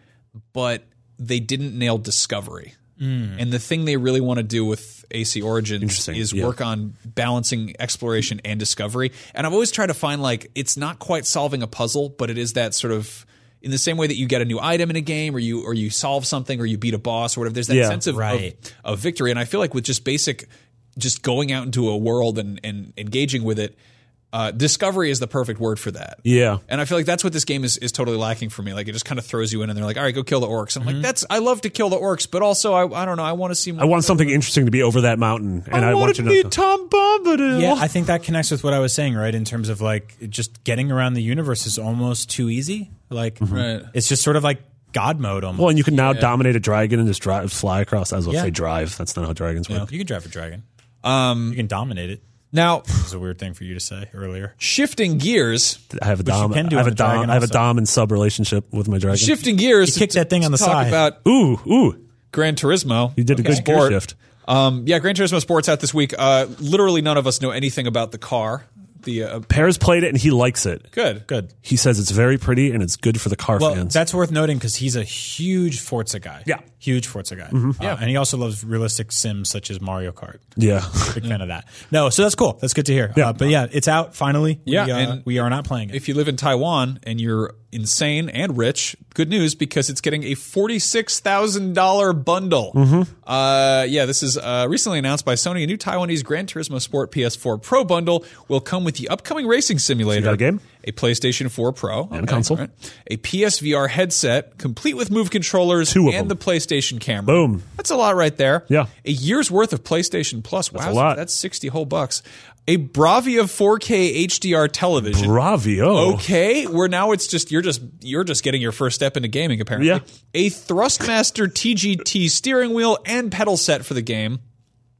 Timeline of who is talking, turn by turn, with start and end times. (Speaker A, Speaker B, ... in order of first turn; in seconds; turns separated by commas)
Speaker A: 0.5-2.8, Speaker B: 3.0-3.4, Speaker A: 3.4-23.8, Speaker C: 5.8-6.5, Speaker C: 17.7-18.0, Speaker B: 18.1-18.5, Speaker A: 24.3-34.4, Speaker C: 26.2-26.6, Speaker B: 30.8-31.1, Speaker C: 33.8-36.5, Speaker A: 35.7-37.9, Speaker B: 37.5-45.8, Speaker C: 43.4-43.7, Speaker A: 43.5-43.9, Speaker C: 45.6-49.9, Speaker A: 46.0-46.3, Speaker B: 49.8-50.6, Speaker A: 51.0-51.6, Speaker B: 51.5-52.2, Speaker A: 52.5-52.9, Speaker B: 52.9-54.5, Speaker A: 54.6-55.8, Speaker C: 55.9-59.4, Speaker B: 56.2-57.6, Speaker A: 59.1-61.2, Speaker B: 59.9-61.1, Speaker C: 61.2-62.0, Speaker A: 62.3-69.5, Speaker C: 63.2-64.1, Speaker B: 63.3-63.6, Speaker C: 69.5-70.9, Speaker A: 70.9-71.3, Speaker C: 71.6-74.0, Speaker B: 73.6-80.5, Speaker C: 77.5-77.8, Speaker C: 80.6-81.2, Speaker B: 81.1-86.0, Speaker C: 83.2-83.5, Speaker A: 84.7-85.3, Speaker A: 85.9-115.3, Speaker C: 92.7-93.1, Speaker C: 100.1-100.6, Speaker C: 102.1-102.6, Speaker C: 105.9-106.4, Speaker C: 107.3-107.7, Speaker C: 110.7-111.2, Speaker C: 115.1-116.3, Speaker A: 115.9-124.4, Speaker C: 119.8-120.0